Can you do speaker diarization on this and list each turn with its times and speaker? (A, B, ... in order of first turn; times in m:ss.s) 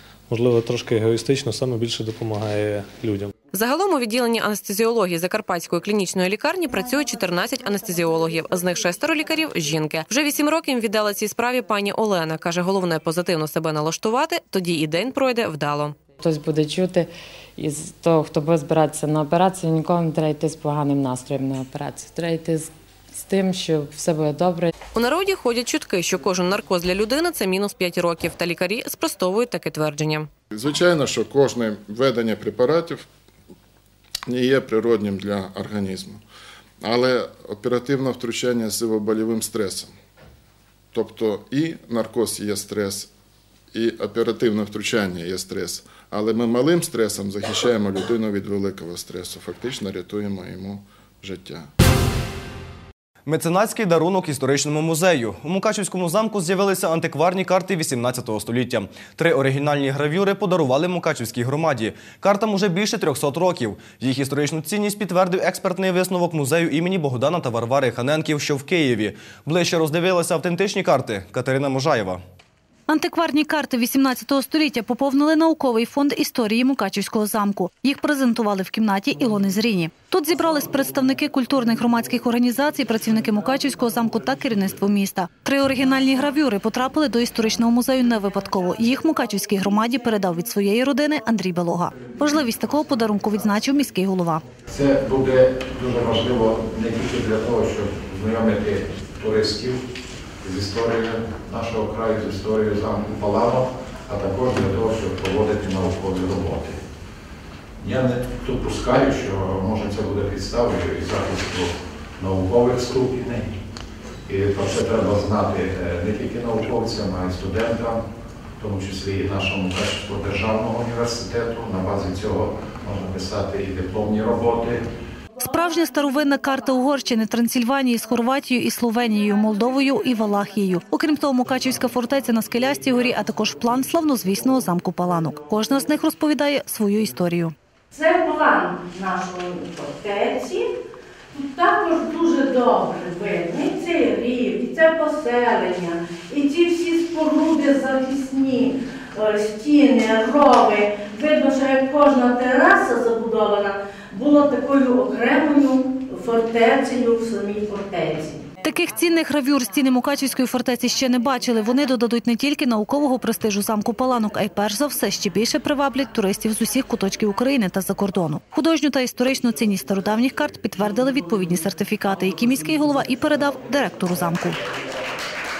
0:00.3-0:03.3 A
0:03.5-0:16.0 B
0:16.2-0:24.7 C
0:24.9-0:30.3 B
0:30.5-0:33.1 D
0:34.3-0:36.2 D
0:36.8-0:39.9 D
0:40.9-0:43.1 D
0:43.7-0:51.7 D
0:53.2-1:12.2 E
1:12.9-1:34.4 F
1:34.7-1:39.9 G
1:40.4-1:46.8 G
1:47.8-1:53.6 G
1:54.3-1:58.0 G
1:58.6-2:04.8 G
2:05.4-2:17.5 F
2:17.9-2:20.7 H
2:21.3-2:38.4 H
2:38.6-2:54.6 F